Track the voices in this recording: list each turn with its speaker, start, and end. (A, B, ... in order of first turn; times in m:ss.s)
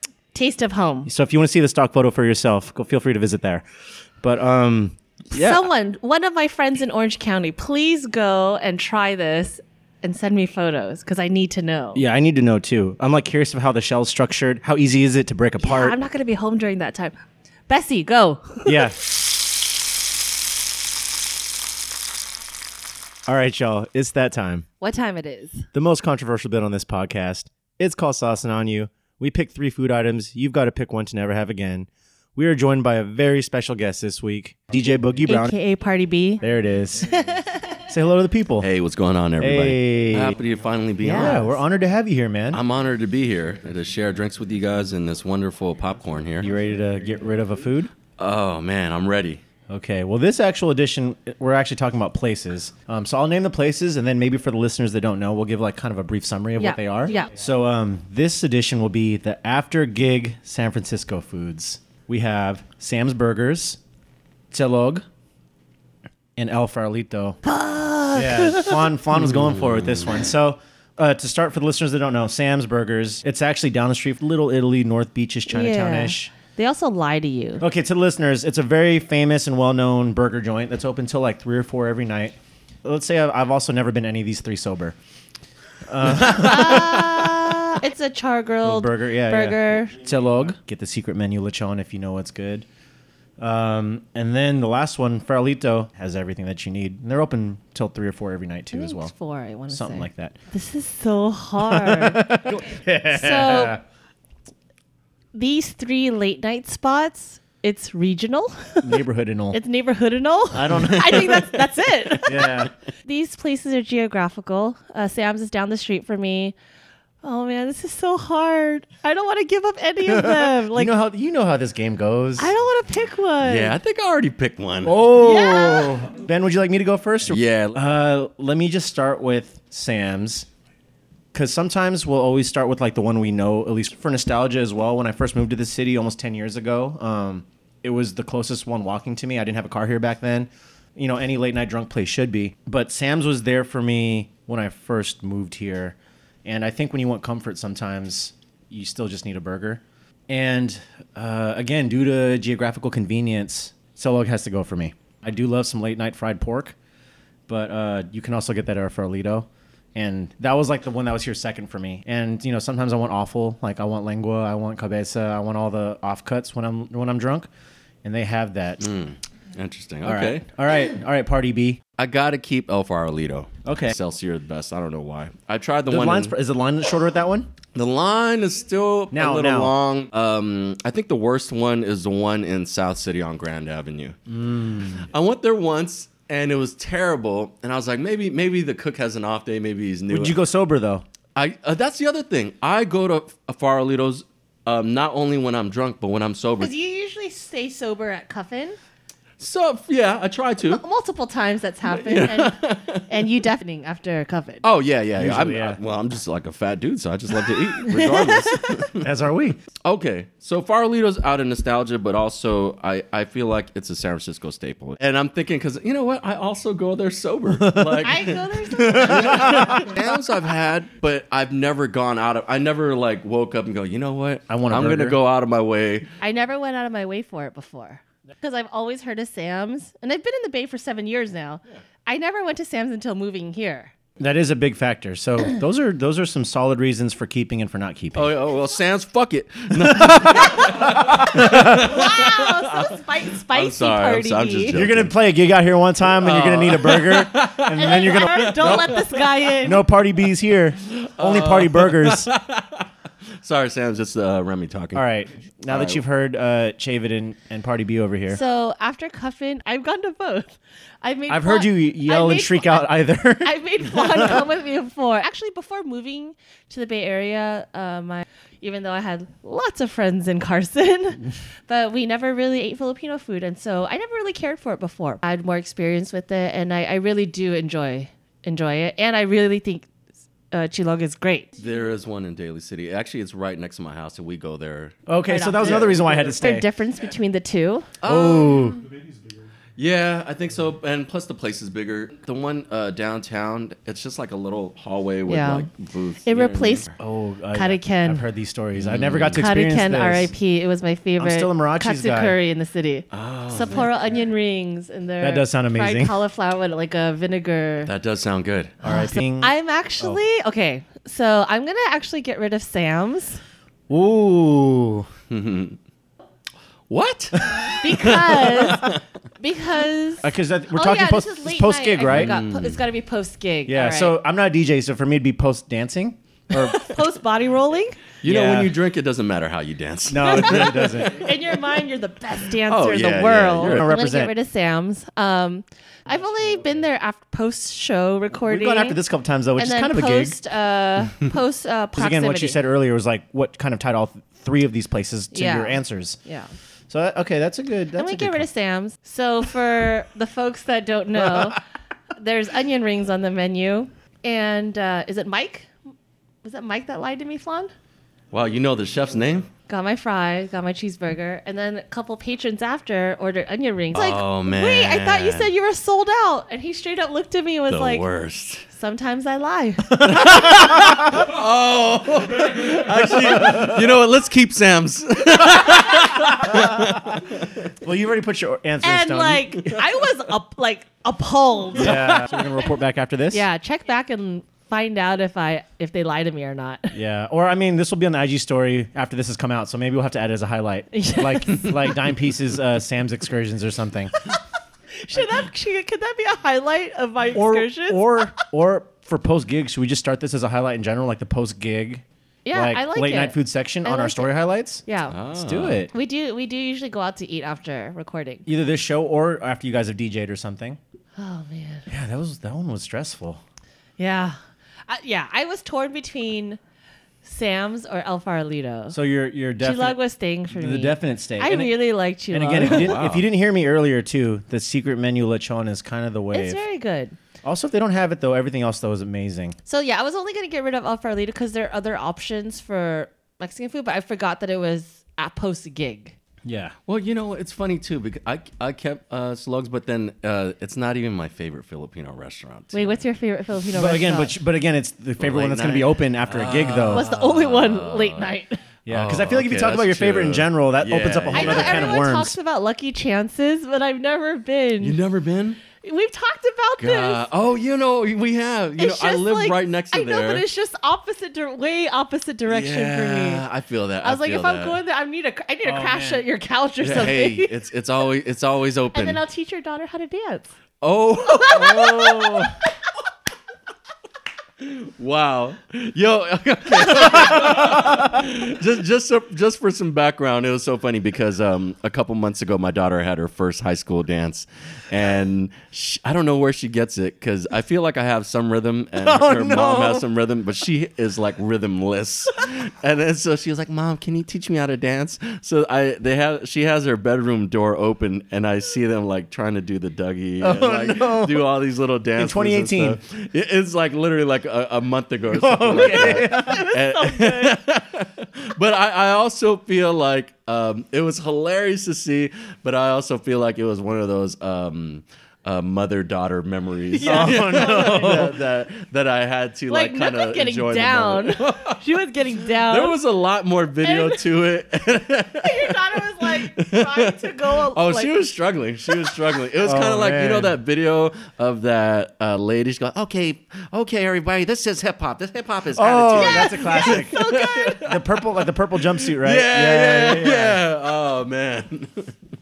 0:00.3-0:01.1 A
0:01.1-0:03.6 B
0:04.2-0:05.7 B
0:05.3-0:12.0 A
0:12.0-0:16.0 B
0:15.6-0:17.1 A
0:17.7-0:18.9 A
0:18.7-0:19.0 B
0:23.3-0:24.7 B
0:24.8-0:25.7 A
0:25.7-0:35.6 B
0:35.3-0:36.4 A
0:36.4-0:37.2 B
0:37.9-0:38.7 B
0:38.6-0:41.5 C
0:39.4-0:40.4 B
0:41.0-0:42.6 B
0:41.1-0:41.4 A
0:42.5-0:46.5 C
0:46.4-0:47.9 B
0:48.2-0:49.4 C
0:49.7-1:03.8 B
0:56.6-0:57.3 A
1:04.5-1:05.1 B
1:06.4-1:07.4 B
1:07.4-1:08.9 A
1:08.1-1:16.3 B
1:15.5-1:17.6 A
1:17.6-1:25.0 B
1:25.9-1:27.6 B
1:26.1-1:29.9 A
1:28.6-1:32.7 B
1:33.4-1:39.1 B
1:38.7-1:43.8 A
1:39.7-1:40.4 B
1:41.6-1:43.8 B
1:45.3-1:49.0 A
1:48.8-1:49.6 B
1:49.5-1:56.6 A
1:50.5-1:51.6 B
1:52.2-1:52.7 B
1:57.2-2:00.9 A
2:00.1-2:02.5 B
2:02.4-2:03.8 A
2:03.4-2:05.0 C
2:04.8-2:10.5 B
2:05.2-2:06.0 A
2:07.3-2:07.8 C
2:11.3-2:36.8 B
2:37.5-2:47.5 B
2:48.0-2:48.8 B
2:48.8-2:50.4 C
2:50.0-2:51.8 B
2:52.0-2:56.4 C
2:53.6-2:54.0 B
2:55.9-2:57.5 B
2:57.7-3:04.2 C
2:59.1-2:59.7 B
3:04.3-3:05.0 B
3:05.0-3:10.4 C
3:10.1-3:11.0 B
3:11.4-3:16.7 C
3:16.6-3:18.8 A
3:19.4-3:20.8 C
3:20.7-3:24.6 A
3:21.9-3:23.2 C
3:24.6-3:29.1 C
3:25.2-3:25.8 B
3:27.8-3:28.8 A
3:29.0-3:29.6 B
3:29.8-3:46.1 C
3:37.6-3:38.0 B
3:38.0-3:39.8 A
3:38.8-3:39.9 B
3:44.5-3:45.2 B
3:46.2-3:53.9 A
3:54.2-3:58.3 B
3:58.2-4:03.0 C
3:59.8-4:02.0 B
4:01.6-4:04.8 A
4:03.5-4:05.1 C
4:04.7-4:09.0 B
4:06.0-4:09.5 C
4:07.7-4:09.8 A
4:09.6-4:12.3 B
4:10.9-4:12.9 C
4:13.4-4:15.0 C
4:15.0-4:18.4 B
4:15.7-4:16.0 C
4:18.3-4:22.9 A
4:21.3-4:24.4 B
4:23.4-4:39.9 A
4:40.5-4:41.5 A
4:41.6-4:45.0 C
4:45.1-4:46.7 B
4:45.3-4:47.9 A
4:45.6-4:46.0 C
4:48.0-4:48.8 C
4:48.0-4:48.8 B
4:49.8-4:56.9 C
4:55.3-4:55.7 A
4:56.2-4:56.9 A
4:57.0-5:00.3 B
4:57.5-4:58.2 A
4:58.8-4:59.4 C
4:59.3-5:07.9 A
5:01.2-5:02.4 B
5:03.1-5:04.0 C
5:05.2-5:06.1 B
5:07.8-5:08.8 C
5:08.8-5:10.2 B
5:08.8-5:13.4 A
5:13.9-5:15.1 B
5:15.3-5:15.8 C
5:16.9-5:19.0 C
5:17.8-5:24.2 A
5:20.2-5:22.4 B
5:22.1-5:22.8 C
5:23.7-5:26.9 B
5:26.5-5:28.1 A
5:28.2-5:31.0 C
5:28.3-5:28.7 B
5:30.1-5:31.3 B
5:30.2-5:39.0 A
5:32.7-5:34.0 C
5:33.6-5:34.3 B
5:38.5-5:40.4 B
5:39.6-5:42.6 A
5:42.0-5:46.2 B
5:45.3-5:46.5 A
5:46.9-5:48.5 B
5:48.0-5:51.6 A
5:51.2-5:51.6 B
5:52.2-5:55.7 A
5:56.4-5:57.7 A
5:58.3-5:59.5 C
5:59.7-6:08.0 A
6:03.9-6:05.5 C
6:07.7-6:08.6 C
6:08.7-6:10.4 A
6:09.9-6:11.2 B
6:10.0-6:17.6 C
6:13.3-6:13.8 B
6:16.1-6:17.2 B
6:17.8-6:19.6 B
6:18.8-6:22.5 A
6:21.8-6:23.4 B
6:23.3-6:27.0 A
6:26.9-6:34.2 B
6:30.9-6:32.0 A
6:35.0-6:38.3 A
6:37.3-6:44.8 B
6:42.4-6:44.3 A
6:44.9-6:45.2 A
6:45.1-6:45.8 C
6:45.4-6:45.9 B
6:45.9-6:48.4 A
6:48.5-6:50.8 B
6:51.2-6:51.9 A
6:51.9-6:53.4 B
6:54.0-6:54.4 A
6:54.9-6:56.6 A
6:57.2-6:59.0 A
6:58.9-7:00.0 B
6:59.6-7:03.0 A
7:00.5-7:01.7 B
7:02.3-7:06.6 B
7:02.6-7:03.3 C
7:06.3-7:07.2 A
7:07.4-7:09.6 B
7:09.7-7:16.2 A
7:16.4-7:16.8 B
7:16.9-7:23.0 C
7:22.7-7:24.4 A
7:23.7-7:27.1 B
7:25.2-7:28.4 C
7:26.9-7:28.6 A
7:28.9-7:32.4 B
7:28.9-7:32.0 C
7:31.3-7:35.0 A
7:34.8-7:35.6 C
7:35.8-7:37.2 A
7:36.8-7:40.5 C
7:38.8-7:43.4 A
7:42.5-7:44.8 C
7:44.0-7:47.5 A
7:45.6-7:46.2 B
7:46.8-7:49.2 C
7:48.9-7:50.5 A
7:50.8-7:52.6 C
7:51.2-7:52.5 A
7:54.6-8:41.8 C
8:09.0-8:10.0 B
8:20.4-8:21.5 B
8:22.2-8:23.0 B
8:25.3-8:26.7 B
8:26.0-8:27.6 A
8:36.9-8:38.3 A
8:37.1-8:38.3 B
8:39.7-8:43.0 A
8:42.4-9:02.1 C
8:43.8-8:44.2 A
8:45.4-8:48.2 A
8:49.6-8:50.6 B
8:55.8-9:00.6 B
8:56.2-8:57.8 A